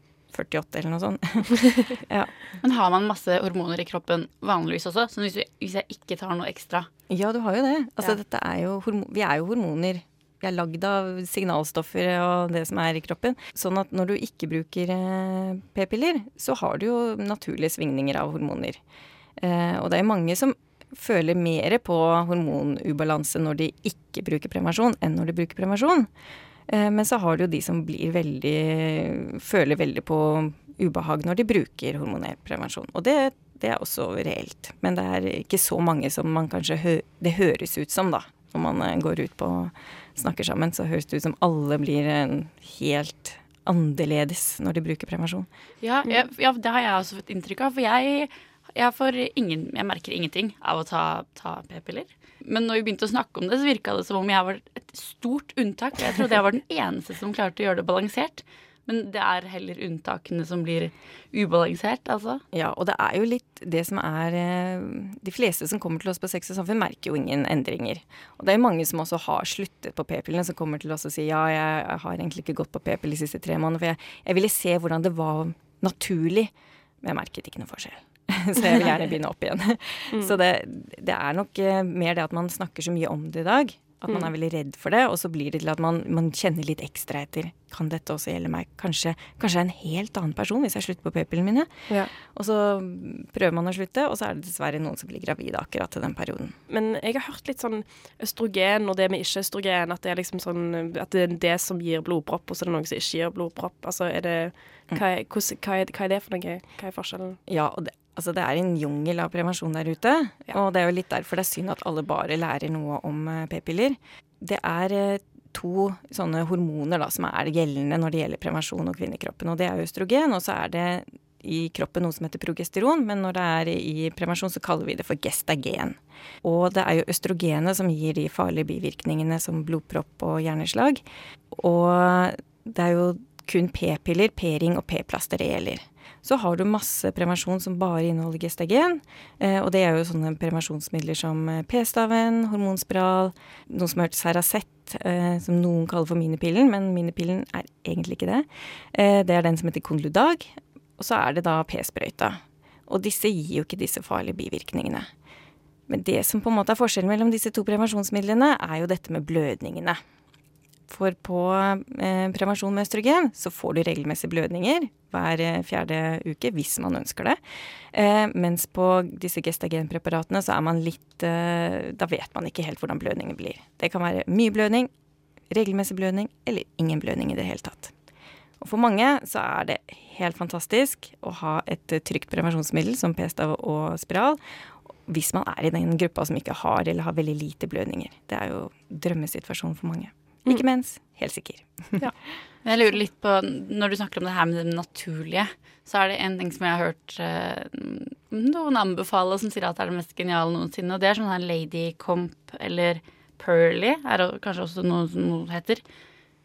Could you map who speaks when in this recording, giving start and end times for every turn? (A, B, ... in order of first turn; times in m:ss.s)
0:00.3-0:02.3 A
0:02.6-0:06.9 B
0:07.1-0:18.8 A
0:19.4-0:26.1 A
0:26.7-0:45.5 A
0:45.8-1:02.4 B
1:02.5-1:36.6 A
1:20.1-1:20.4 C
1:36.7-1:47.4 C
1:47.5-2:35.1 A
2:35.9-2:40.0 A
2:40.9-2:47.4 A
2:47.9-2:54.9 A
2:55.5-2:57.9 A
2:58.6-3:04.4 A
3:05.1-3:12.0 A
3:12.6-3:25.8 B